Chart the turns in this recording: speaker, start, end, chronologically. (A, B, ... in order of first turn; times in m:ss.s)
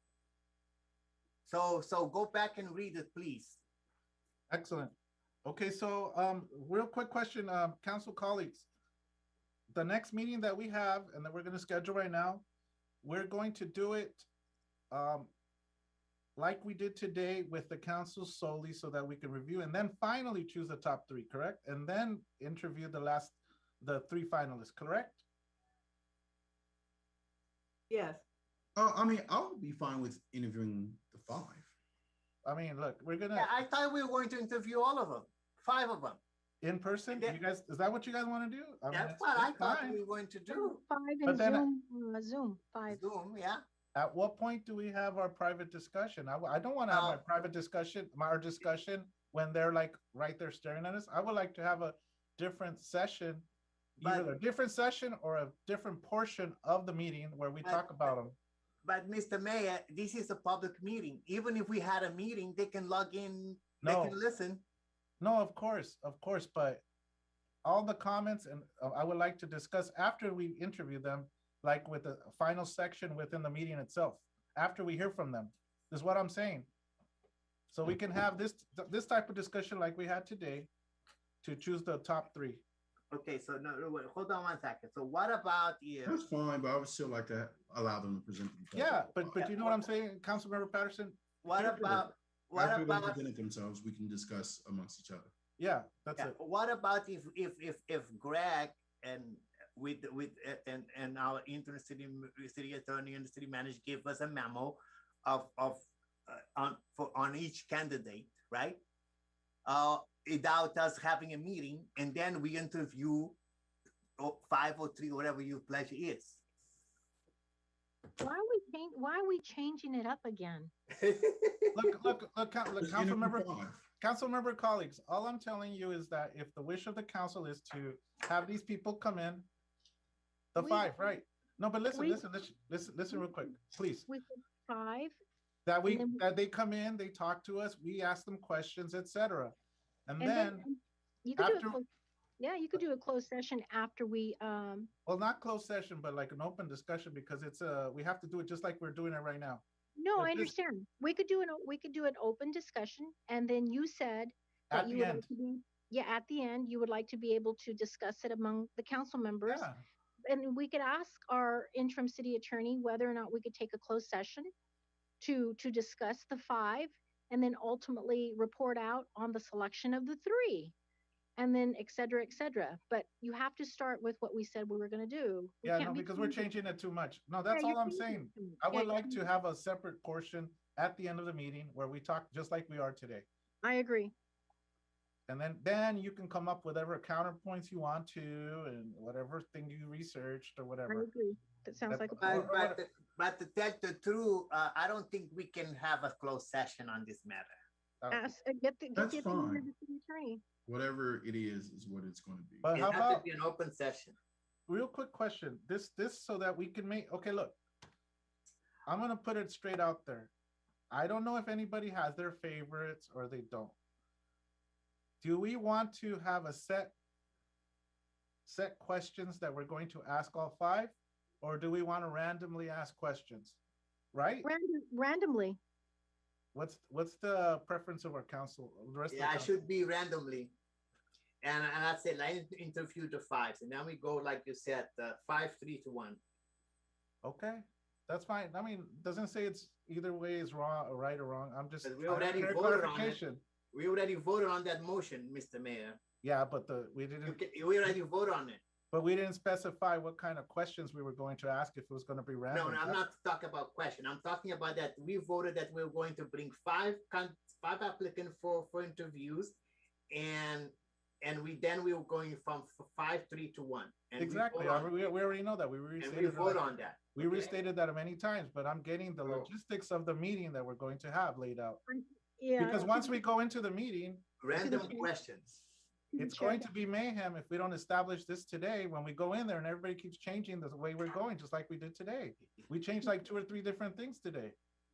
0:01.5-0:03.6 A
0:04.5-0:04.9 B
0:05.4-0:08.7 B
0:09.7-0:12.4 B
0:13.0-0:14.3 B
0:14.9-0:15.3 B
0:16.4-0:25.2 B
0:28.8-0:31.7 C
0:32.4-0:33.5 B
0:33.3-0:36.2 A
0:36.6-0:40.0 B
0:38.9-0:40.8 A
0:40.5-0:43.0 D
0:41.2-0:41.7 B
0:42.9-0:43.6 A
0:44.0-0:53.5 B
0:46.9-0:47.2 A
0:54.0-0:58.4 B
0:54.0-0:54.3 A
0:57.6-0:58.1 A
0:58.8-1:04.6 A
1:03.8-1:04.2 B
1:05.2-1:06.8 B
1:07.6-1:16.7 B
1:17.7-1:20.7 B
1:21.4-1:22.6 B
1:23.1-1:26.2 A
1:26.1-1:29.4 C
1:28.7-1:31.7 B
1:29.4-1:29.8 A
1:31.4-1:33.2 A
1:31.7-1:35.3 C
1:35.6-1:36.3 B
1:36.2-1:48.8 A
1:49.7-1:53.4 A
1:54.2-1:56.4 A
1:58.2-2:00.7 D
2:00.9-2:01.9 A
2:01.7-2:09.5 B
2:02.8-2:03.8 C
2:10.5-2:14.1 B
2:10.6-2:10.9 D
2:11.9-2:12.2 D
2:14.1-2:15.2 D
2:15.7-2:19.5 B
2:15.9-2:16.2 D
2:20.1-2:20.6 B
2:20.2-2:21.9 D
2:21.4-2:21.8 B
2:22.4-2:24.9 D
2:25.1-2:29.6 B
2:30.0-2:39.7 D
2:30.2-2:30.5 B
2:34.7-2:35.3 B
2:39.5-2:39.8 B
2:40.3-2:44.5 D
2:45.2-2:50.7 D
2:51.4-2:56.5 D
2:55.6-3:03.3 B
2:57.5-2:59.2 D
3:03.6-3:04.1 D
3:05.3-3:11.1 B
3:10.9-3:12.4 D
3:11.9-3:12.8 B
3:12.2-3:17.5 A
3:18.0-3:18.3 B
3:18.1-3:20.4 D
3:19.0-3:19.7 C
3:20.7-3:22.7 C
3:22.6-3:23.2 B
3:22.7-3:24.2 A
3:24.7-3:27.6 B
3:28.9-3:30.3 B
3:30.9-3:33.8 B
3:35.2-3:36.9 B
3:38.5-3:43.6 B
3:44.1-3:44.5 B
3:44.4-3:45.6 D
3:46.5-3:49.5 B
3:49.1-3:50.5 A
3:51.4-3:56.2 A
3:57.2-4:03.4 B
4:01.8-4:06.0 A
4:06.2-4:08.0 B
4:07.3-4:08.6 A
4:08.9-4:13.0 B
4:12.5-4:19.6 A
4:20.1-4:24.9 A
4:24.2-4:26.6 B
4:26.0-4:27.5 A
4:27.2-4:31.8 B
4:31.9-4:33.2 D
4:32.6-4:34.9 B
4:34.4-4:35.6 A
4:34.6-4:35.1 D
4:36.1-4:36.7 D
4:36.2-4:44.6 B